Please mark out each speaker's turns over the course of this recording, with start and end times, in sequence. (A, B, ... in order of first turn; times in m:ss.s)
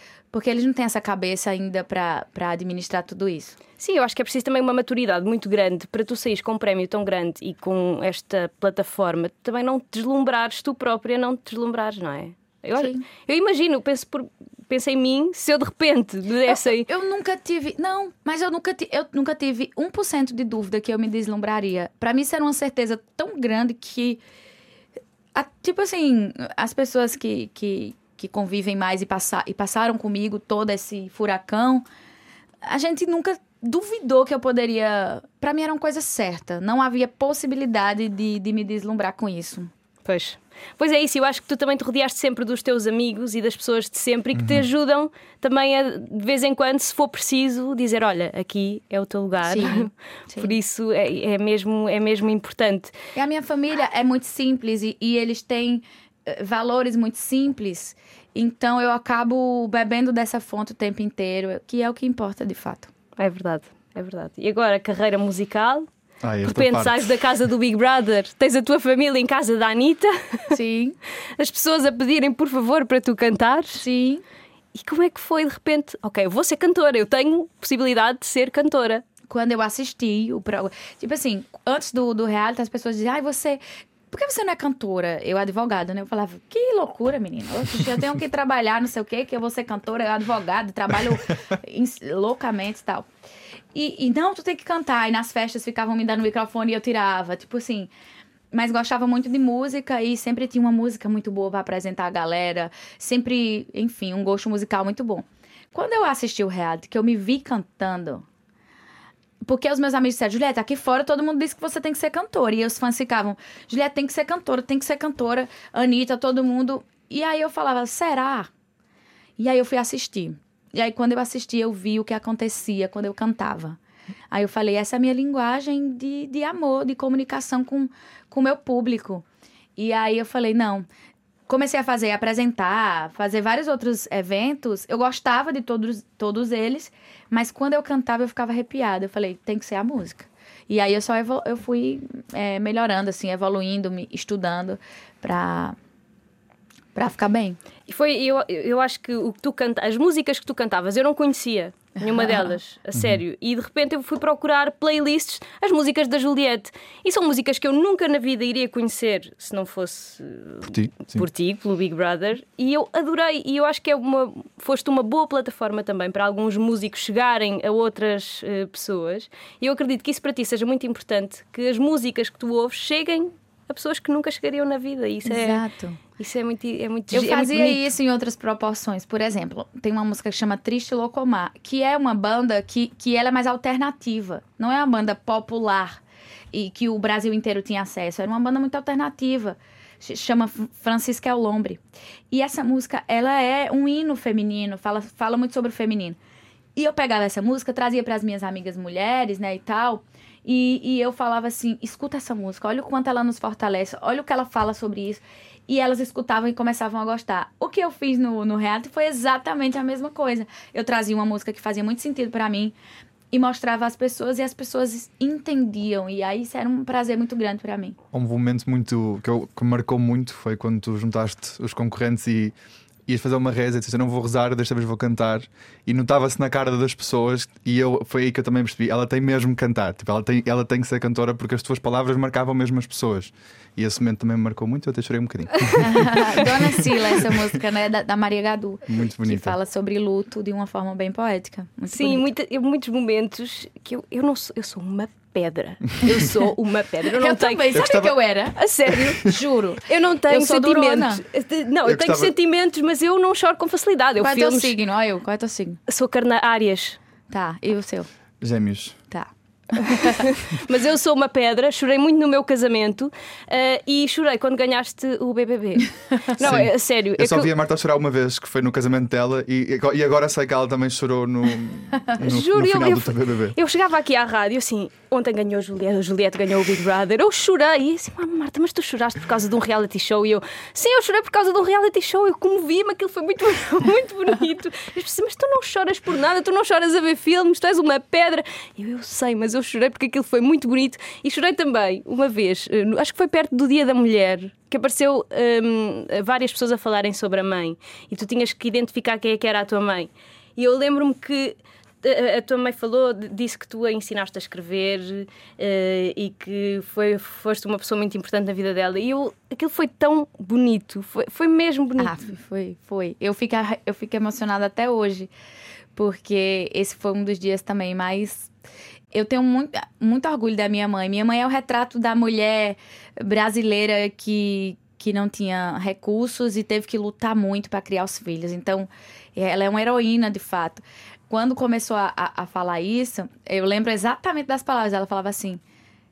0:00.3-0:03.6 A
0:03.8-0:16.9 B
0:12.8-0:13.0 A
0:16.5-0:24.2 A
0:25.4-0:31.8 A
0:32.6-0:39.7 A
0:40.0-0:52.9 B
0:44.3-0:44.7 C
0:49.4-0:50.5 A
0:53.2-1:02.9 A
1:03.2-1:05.9 B
1:06.2-1:07.1 C
1:06.4-1:10.6 B
1:10.5-1:11.0 A
1:11.4-1:13.8 B
1:13.8-1:14.2 A
1:14.7-1:19.0 B
1:19.3-1:33.1 A
1:33.8-1:37.9 A
1:38.5-1:48.3 A
1:49.4-1:58.5 A
1:59.4-2:03.8 A
2:04.3-2:09.2 A
2:09.8-2:10.9 A
2:11.5-2:25.8 A
2:27.0-2:27.6 A
2:27.9-2:55.6 B
2:32.0-2:32.5 A
2:33.0-2:33.2 C
2:40.7-2:41.3 C
2:55.3-2:56.0 A
2:56.2-2:57.9 B
2:57.1-3:06.0 A
3:06.5-3:16.2 A
3:16.8-3:32.8 A
3:33.3-3:38.0 A
3:38.1-3:42.6 C
3:43.1-3:57.1 C
3:55.8-4:02.3 A
3:58.9-3:59.6 C
4:01.9-4:07.8 B
4:07.1-4:08.6 A
4:07.7-4:08.2 C
4:08.6-4:14.8 B
4:09.2-4:11.2 A
4:11.8-4:12.3 C
4:14.2-4:15.8 A
4:15.9-4:17.0 B
4:17.3-4:18.1 A
4:18.4-4:19.0 C
4:19.1-4:20.3 A
4:20.0-4:27.5 B
4:26.4-4:33.6 C
4:32.2-5:12.1 B
5:12.0-5:15.3 A
5:16.0-5:18.5 A
5:19.1-5:35.6 A